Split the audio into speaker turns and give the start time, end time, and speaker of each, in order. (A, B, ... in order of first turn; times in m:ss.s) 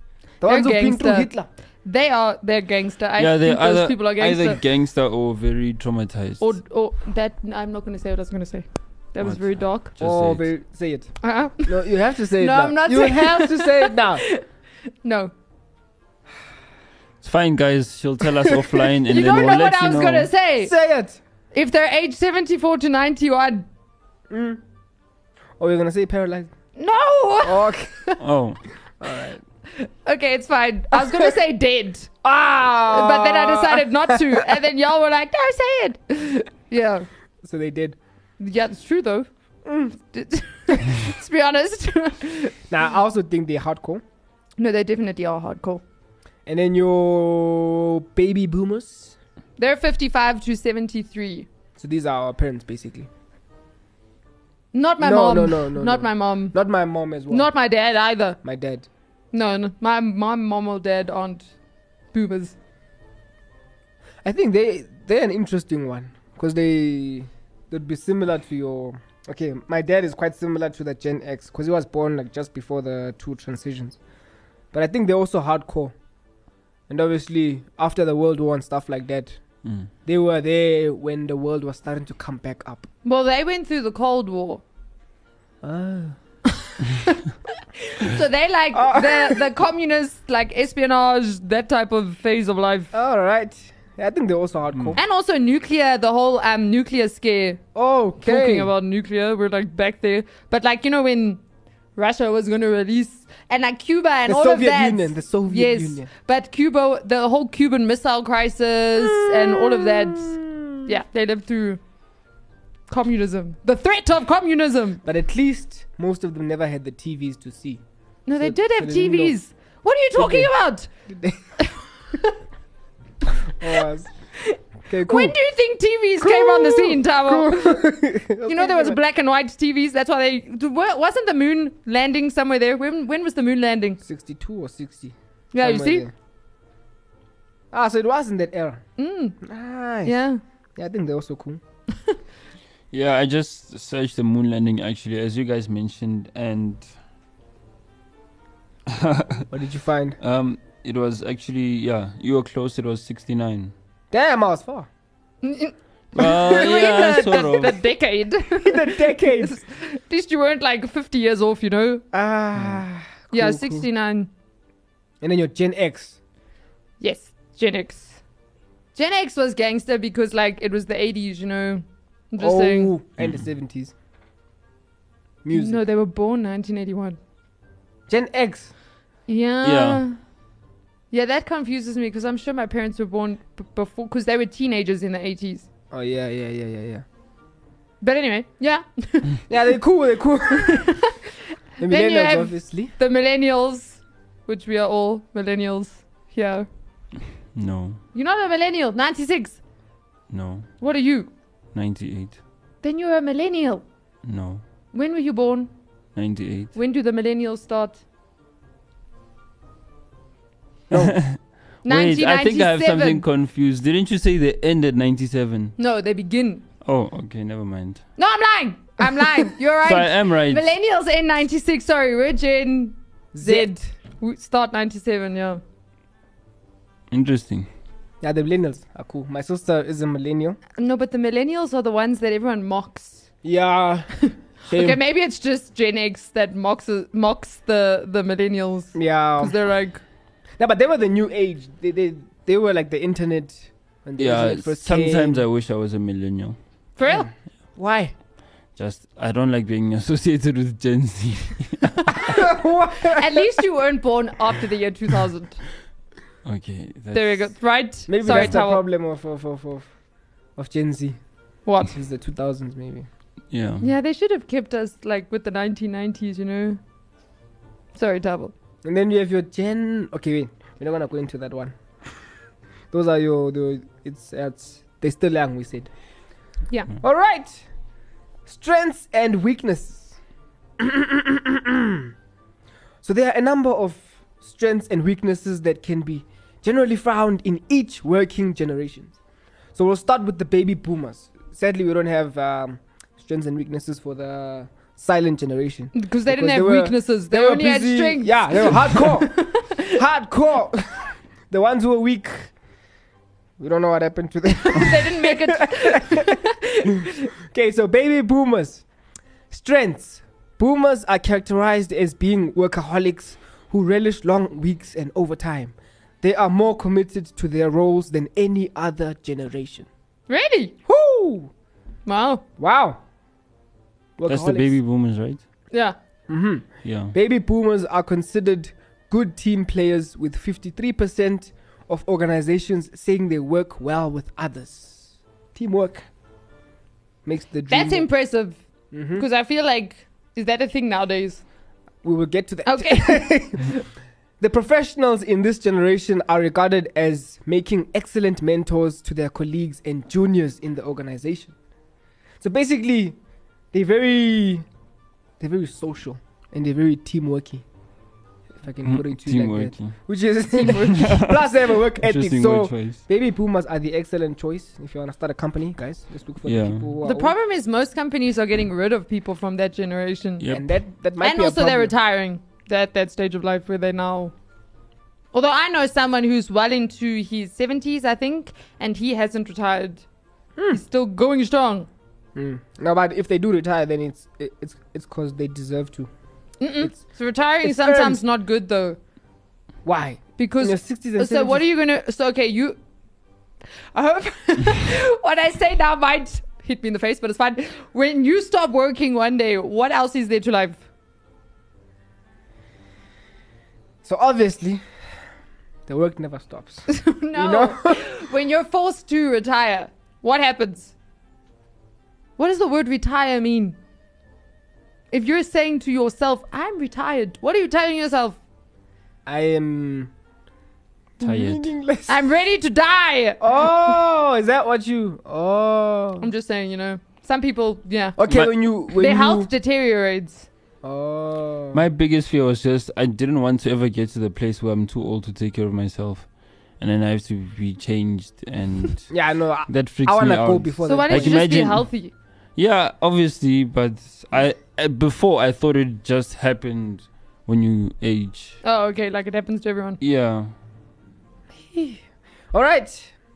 0:00.4-0:01.5 A
0:00.4-0:01.3 B
0:01.8-0:04.6 B
0:03.2-0:06.5 C
0:06.4-0:09.9 B
0:09.2-0:10.5 C
0:10.0-0:14.2 A
0:11.2-0:11.8 B
0:12.4-0:14.4 B
0:15.0-0:15.3 B
0:17.2-0:20.3 C
0:19.1-0:20.7 B
0:20.6-0:21.2 A
0:21.5-0:23.7 B
0:24.3-0:24.6 A
0:25.6-0:26.5 A
0:26.8-0:27.7 B
0:27.4-0:28.2 A
0:28.2-0:28.6 C
0:29.0-0:29.4 A
0:29.7-0:32.1 B
0:31.0-0:31.3 A
0:32.2-0:34.6 A
0:32.9-0:37.1 B
0:37.4-0:38.0 A
0:38.4-0:39.3 B
0:39.6-0:39.9 A
0:40.0-0:42.5 B
0:42.7-0:44.0 A
0:44.6-0:45.8 B
0:46.5-0:49.2 A
0:49.6-0:51.5 B
0:51.8-0:53.1 A
0:54.7-0:56.6 B
0:55.0-0:57.5 A
0:57.3-0:58.4 B
0:58.4-0:58.9 A
0:59.3-1:01.5 B
1:02.1-1:02.6 B
1:04.2-1:14.0 A
1:14.7-1:15.9 A
1:16.9-1:19.4 A
1:19.6-1:19.9 C
1:20.1-1:22.9 A
1:23.0-1:24.6 B
1:25.6-1:26.2 A
1:27.8-1:32.9 B
1:28.7-1:29.4 A
1:32.9-1:35.0 A
1:35.0-1:37.6 B
1:37.8-1:38.7 A
1:38.2-1:41.4 B
1:42.0-1:51.8 B
1:44.3-1:46.1 A
1:49.0-1:50.9 A
1:52.9-1:55.0 B
1:55.0-1:57.8 A
1:58.3-2:00.9 B
1:58.4-1:59.4 A
2:00.2-2:00.5 A
2:01.1-2:01.4 A
2:01.6-2:02.3 B
2:03.4-2:04.1 A
2:04.4-2:07.9 B
2:04.9-2:05.4 A
2:06.2-2:09.0 A
2:08.4-2:14.0 B
2:14.0-2:16.1 A
2:15.5-2:16.1 B
2:17.7-2:18.8 A
2:19.0-2:19.4 B
2:19.4-2:20.2 A
2:20.0-2:20.4 B
2:20.8-2:21.6 A
2:22.9-2:26.9 C
2:28.9-2:29.5 C
2:29.5-2:30.2 A
2:30.2-2:33.7 C
2:34.1-2:34.9 A
2:35.4-2:42.0 B
2:36.2-2:37.8 C
2:36.2-2:37.6 A
2:38.5-2:39.6 A
2:42.1-2:43.8 A
2:43.3-2:44.3 B
2:45.2-2:46.2 A
2:47.0-2:48.2 B
2:49.0-2:52.9 B
2:52.4-2:53.9 A
2:53.2-2:53.4 C
2:55.4-2:55.8 A
2:55.5-2:57.2 B
2:58.1-2:58.7 A
2:59.3-3:00.2 B
2:59.6-3:00.0 C
3:01.1-3:05.7 B
3:05.9-3:07.0 A
3:08.0-3:09.5 B
3:09.5-3:10.9 A
3:10.6-3:11.2 B
3:11.8-3:12.9 A
3:11.8-3:16.7 B
3:17.5-3:18.0 C
3:18.1-3:19.6 B
3:20.3-3:20.7 C
3:20.8-3:21.3 B
3:21.7-3:22.4 C
3:22.8-3:23.8 B
3:24.2-3:24.6 C
3:24.9-3:25.7 B
3:26.2-3:26.8 C
3:26.8-3:28.0 B
3:30.9-3:31.2 A
3:30.9-3:35.8 C
3:31.8-3:33.2 B
3:35.8-3:36.6 B
3:36.8-3:38.1 C
3:38.2-3:45.6 B
3:39.8-3:40.7 C
3:43.3-3:43.8 A
3:47.1-3:47.7 C
3:48.2-3:50.6 A
3:50.8-3:53.2 B
3:53.4-3:55.0 A
3:54.7-4:00.0 B
3:58.9-3:59.6 A
4:00.6-4:05.4 A
4:04.2-4:06.6 C
4:07.0-4:07.3 B
4:07.1-4:08.1 A
4:08.8-4:12.2 C
4:12.2-4:13.4 A
4:13.0-4:15.6 B
4:16.4-4:17.5 C
4:17.1-4:18.8 B
4:18.1-4:19.9 A
4:20.6-4:21.2 A
4:21.6-4:21.9 B
4:21.8-4:23.1 A
4:23.5-4:23.9 C
4:23.8-4:26.8 B
4:28.0-4:28.5 B
4:28.8-4:31.8 A
4:32.9-4:35.9 A
4:37.0-4:37.6 A
4:38.5-4:40.2 A
4:40.8-4:42.1 A
4:43.0-4:49.2 A
4:49.8-5:02.5 A
4:55.9-4:59.9 B
5:03.6-5:06.4 A
5:04.5-5:07.3 B
5:06.9-5:08.8 A
5:09.5-5:19.9 A
5:20.3-5:20.8 B
5:20.9-5:21.5 A
5:22.1-5:22.4 B
5:22.6-5:23.0 A
5:24.2-5:24.8 A
5:24.3-5:25.4 C
5:25.7-5:26.0 B
5:26.3-5:36.0 A
5:26.8-5:27.2 C
5:37.2-5:38.1 A
5:37.7-5:38.6 B
5:38.9-5:39.2 A
5:39.1-5:41.4 B
5:42.0-5:43.8 A
5:42.7-5:43.4 B
5:44.4-5:51.6 A
5:52.4-5:53.2 A
5:53.7-5:54.6 A
5:55.4-5:57.6 A
5:58.6-6:07.4 A
5:58.8-6:00.0 C
6:00.5-6:01.0 B
6:00.7-6:01.4 C
6:02.0-6:03.0 C
6:06.4-6:06.9 C
6:07.0-6:10.4 B
6:10.4-6:10.7 C
6:10.5-6:11.9 A
6:11.2-6:14.3 B
6:15.3-6:20.0 B
6:20.6-6:20.8 A
6:20.7-6:21.9 B
6:22.4-6:26.1 A
6:26.6-6:29.0 B
6:27.6-6:28.2 A
6:29.8-6:31.7 A
6:30.4-6:32.8 B
6:33.9-6:40.8 B
6:44.0-6:44.8 A
6:45.9-6:48.1 A
6:46.9-6:50.9 B
6:52.4-6:53.8 B
6:55.1-6:58.4 B
6:59.2-7:00.1 A
7:01.2-7:02.2 A
7:01.2-7:01.7 C
7:02.1-7:03.6 B
7:03.4-7:06.3 A
7:06.2-7:08.2 B
7:08.2-7:09.5 A
7:08.9-7:10.5 B
7:10.8-7:11.8 A
7:11.7-7:22.0 C
7:19.1-7:21.4 A
7:20.8-7:22.1 B
7:22.6-7:28.6 C
7:28.6-7:30.0 B
7:30.0-7:30.5 C
7:31.6-7:33.1 A